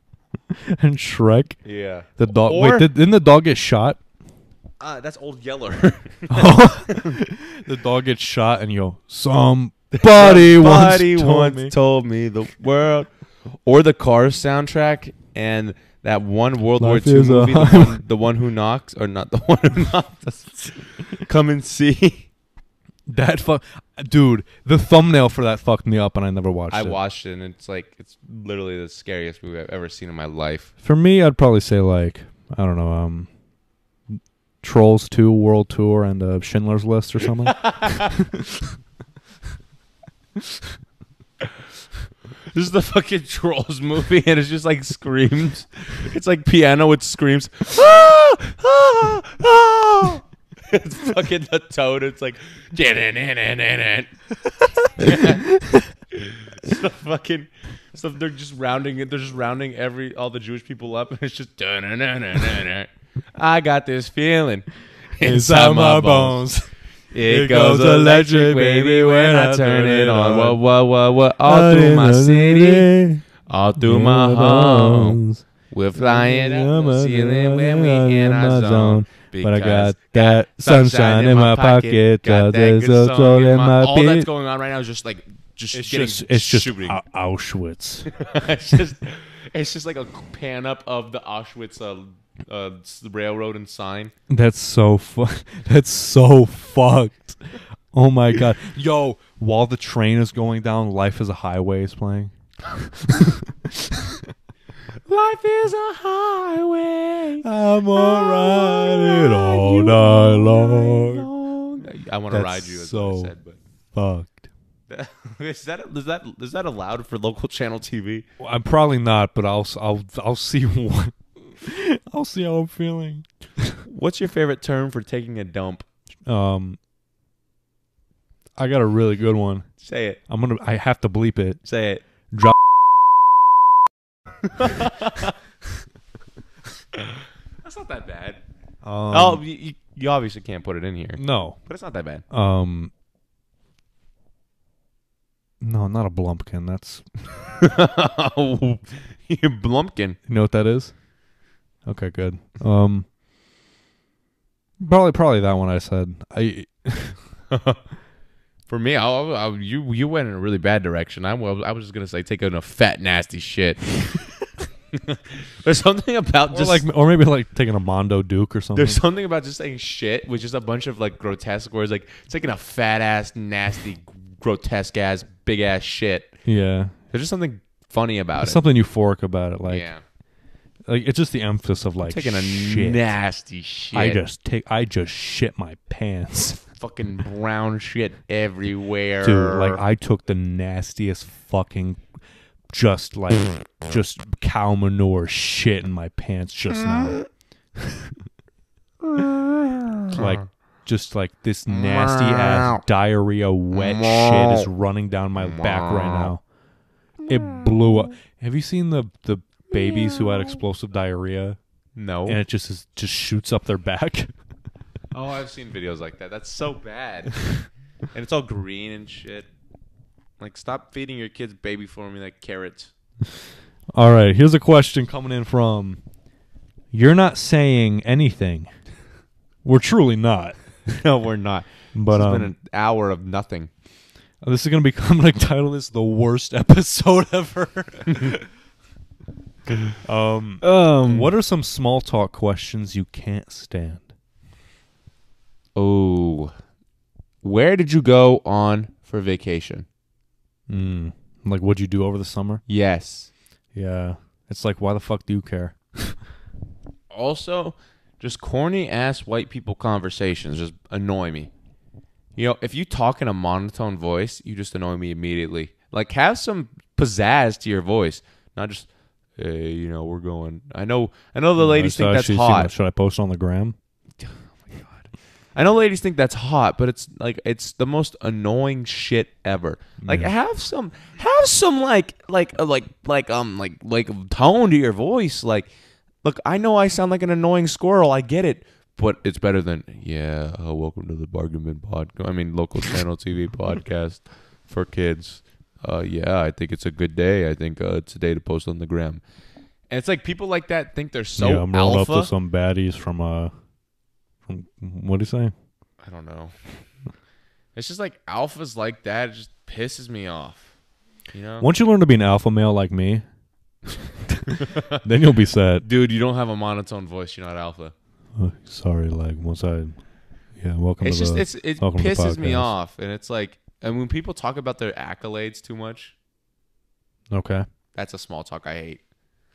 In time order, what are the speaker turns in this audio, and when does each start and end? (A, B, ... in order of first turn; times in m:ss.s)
0:00.5-0:01.6 A
0:01.6-0:02.9 B
0:02.2-0:04.0 A
0:04.8-0:07.2 B
0:06.3-0:11.7 A
0:10.0-0:13.1 B
0:13.6-0:22.3 B
0:16.8-0:18.0 A
0:23.1-0:27.0 A
0:26.7-0:30.7 B
0:30.8-0:33.3 A
0:34.1-0:38.7 A
0:37.4-0:38.2 B
0:42.5-0:54.1 B
0:54.6-0:55.5 B
0:55.0-0:55.9 A
0:56.2-1:06.4 B
1:05.2-1:10.6 A
1:07.1-1:12.9 B
1:11.4-1:13.2 A
1:13.5-1:27.0 B
1:13.8-1:15.4 A
1:16.0-1:24.3 A
1:25.7-1:28.1 A
1:28.1-1:34.1 B
1:34.3-1:44.2 A
1:45.1-1:53.6 B
1:47.4-1:51.3 A
1:52.3-1:53.3 A
1:53.9-1:54.5 A
1:54.9-1:58.3 B
1:58.4-2:03.8 A
2:03.8-2:05.8 B
2:06.3-2:06.8 A
2:08.6-2:09.7 A
2:09.8-2:10.2 B
2:10.3-2:11.6 A
2:11.6-2:12.0 B
2:12.3-2:12.6 A
2:14.4-2:15.4 B
2:17.0-2:18.4 B
2:18.8-2:19.4 A
2:19.1-2:22.2 B
2:21.2-2:21.6 A
2:22.3-2:22.9 A
2:25.6-2:27.0 A
2:27.6-2:30.2 B
2:30.3-2:30.9 A
2:31.8-2:33.1 A
2:34.8-2:37.2 A
2:37.5-2:37.8 B
2:38.7-2:44.2 B
2:44.9-2:46.8 B
2:46.5-2:49.0 A
2:48.8-2:56.4 B
2:56.4-2:56.9 A
2:57.1-2:58.6 B
2:58.4-2:59.9 A
2:59.7-3:00.0 B
3:00.9-3:03.1 A
3:02.0-3:04.2 B
3:03.9-3:06.6 A
3:06.7-3:09.8 B
3:09.2-3:12.0 A
3:12.7-3:17.2 A
3:17.8-3:18.1 A
3:20.1-3:20.4 B
3:20.1-3:26.4 A
3:21.7-3:22.8 B
3:23.7-3:24.7 B
3:25.4-3:26.3 B
3:27.3-3:31.6 A
3:32.0-3:32.4 B
3:32.3-3:34.3 A
3:35.1-3:37.4 B
3:38.1-3:39.5 B
3:40.4-3:42.9 B
3:43.9-3:46.0 A
3:46.9-3:48.7 A
3:49.6-3:50.6 A
3:50.9-3:53.7 B
3:51.9-3:52.5 A
3:54.4-3:58.4 A
4:00.0-4:04.1 A
4:00.6-4:01.3 B
4:05.8-4:06.5 B
4:07.4-4:09.9 B
4:10.7-4:12.6 A
4:12.7-4:13.3 B
4:13.7-4:16.2 A
4:17.1-4:21.5 B
4:22.4-4:32.7 B
4:31.6-4:33.8 A
4:34.6-4:35.0 B
4:35.6-4:45.7 B
4:40.0-4:40.3 A
4:46.2-4:59.2 B
4:59.9-5:02.3 B
5:01.4-5:03.5 A
5:04.5-5:05.5 A
5:06.0-5:06.5 B
5:07.8-5:10.7 B
5:11.3-5:11.7 B
5:11.6-5:13.2 A
5:13.9-5:15.9 A
5:14.5-5:15.0 B
5:15.8-5:17.9 B
5:18.4-5:20.0 A
5:20.6-5:22.7 A
5:21.0-5:26.1 B
5:27.3-5:27.7 A
5:28.0-5:29.0 B